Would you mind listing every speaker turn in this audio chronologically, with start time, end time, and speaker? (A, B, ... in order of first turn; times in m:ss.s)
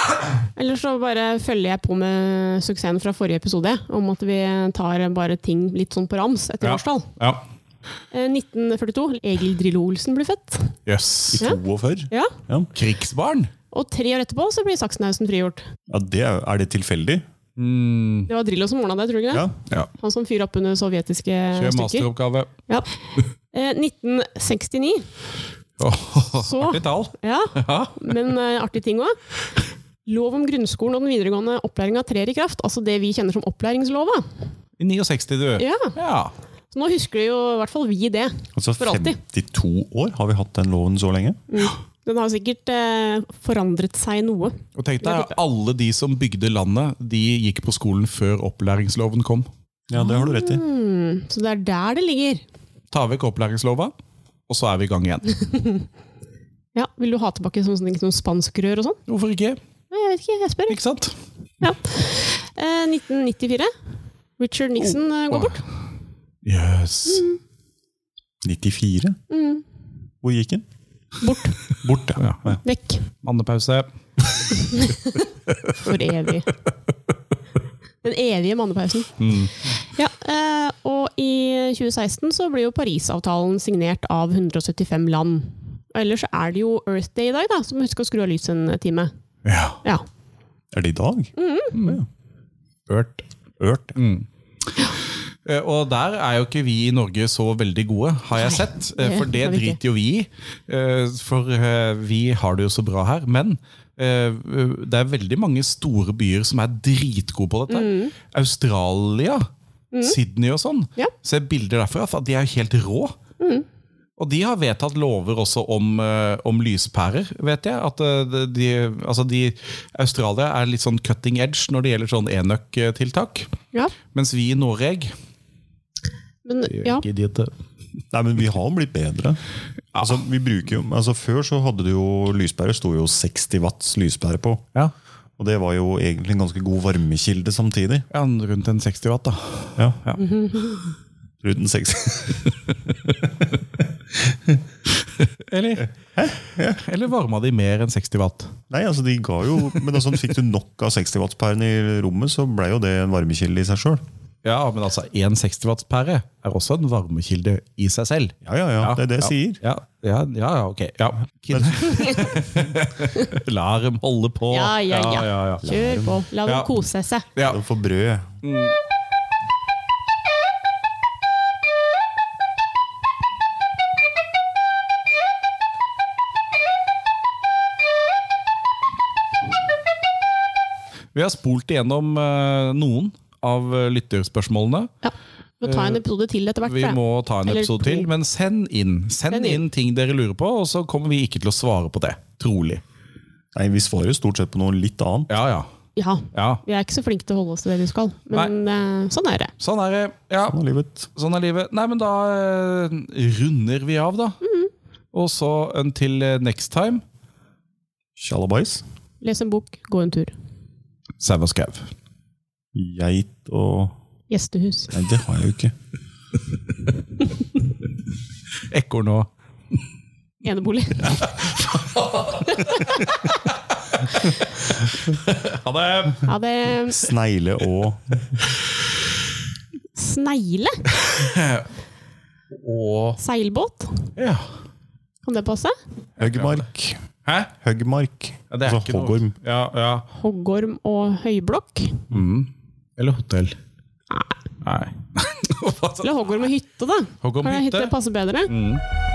0:00.6-0:07.1 A
0:06.6-0:07.4 B
0:08.1-0:10.8 A
0:10.9-0:11.4 B
0:11.3-0:12.7 C
0:11.4-0:12.4 A
0:12.7-0:13.5 B
0:13.7-0:15.7 A
0:15.9-0:17.2 C
0:17.6-0:18.3 B
0:18.3-0:22.1 A
0:19.3-0:19.7 C
0:21.5-0:22.5 B
0:23.5-0:25.1 A
0:25.8-0:28.1 B
0:26.3-0:29.2 A
0:30.1-0:34.3 A
0:34.8-0:36.3 B
0:35.6-0:36.0 A
0:36.7-0:39.2 A
0:38.6-0:41.4 C
0:41.5-0:45.3 A
0:44.8-0:49.5 B
0:49.9-0:50.6 C
0:50.0-0:52.4 A
0:52.9-0:53.9 B
0:54.5-0:55.3 B
0:55.4-0:55.8 A
0:56.8-0:59.0 A
0:59.1-0:59.6 B
0:59.9-1:00.8 A
1:00.7-1:01.2 B
1:01.6-1:03.7 A
1:04.4-1:05.6 A
1:05.3-1:05.6 B
1:06.4-1:07.3 B
1:07.1-1:07.4 A
1:08.4-1:09.2 C
1:09.3-1:09.6 A
1:10.2-1:10.7 C
1:11.2-1:11.6 A
1:11.8-1:12.3 C
1:12.2-1:12.6 B
1:12.6-1:13.0 A
1:13.2-1:13.9 B
1:14.6-1:15.2 A
1:15.5-1:15.9 B
1:15.8-1:16.5 A
1:18.0-1:29.1 A
1:19.2-1:19.5 B
1:29.4-1:29.8 B
1:30.7-1:32.1 C
1:31.4-1:31.8 A
1:31.7-1:32.0 B
1:32.9-1:33.3 B
1:33.6-1:34.0 C
1:34.0-1:34.3 B
1:35.4-1:49.5 B
1:38.4-1:39.8 A
1:47.7-1:48.1 A
1:50.0-1:53.2 B
1:53.4-1:53.7 A
1:54.2-2:03.5 B
2:04.1-2:05.1 B
2:06.4-2:07.1 A
2:06.7-2:07.5 B
2:08.1-2:09.4 C
2:10.0-2:14.7 C
2:15.4-2:18.1 C
2:18.1-2:20.3 B
2:20.2-2:20.8 A
2:21.4-2:22.5 C
2:22.7-2:23.2 B
2:23.2-2:24.6 C
2:25.0-2:25.9 B
2:26.0-2:26.8 C
2:26.8-2:28.5 B
2:28.7-2:34.0 C
2:34.4-2:45.6 B
2:38.4-2:39.6 C
2:41.5-2:42.3 C
2:44.5-2:47.3 A
2:45.6-2:46.2 C
2:46.5-2:46.7 B
2:47.4-2:48.4 C
2:48.4-2:48.8 B
3:01.1-3:04.9 B
3:05.0-3:08.1 A
3:05.6-3:06.0 B
3:06.6-3:12.8 B
3:09.3-3:09.6 A
3:13.6-3:15.3 C
3:15.3-3:15.7 B
3:16.0-3:19.5 A
3:16.3-3:16.6 B
3:19.6-3:20.6 B
3:20.5-3:21.1 C
3:21.1-3:24.4 B
3:24.4-3:24.7 A
3:25.1-3:27.0 B
3:28.2-3:28.8 C
3:29.2-3:30.3 A
3:31.2-3:31.9 B
3:32.7-3:34.0 C
3:34.3-3:34.9 A
3:34.9-3:35.7 C
3:38.7-3:39.3 B
3:40.4-3:41.5 A
3:41.0-3:46.3 B
3:42.7-3:43.0 A
3:46.2-3:47.1 A
3:46.9-3:48.4 C
3:50.0-3:50.9 A
3:50.9-3:51.7 B
3:52.5-3:53.2 B
3:53.2-3:54.1 A
3:54.2-3:54.5 B
3:55.2-3:55.8 A
3:56.2-3:57.0 C
3:56.3-3:56.6 B
3:57.2-3:57.5 B
3:57.6-3:59.3 C
3:58.5-4:00.1 B
4:00.2-4:02.0 A
4:02.1-4:03.6 B
4:04.6-4:06.1 B
4:06.0-4:08.5 A
4:07.2-4:07.9 B
4:08.5-4:08.8 B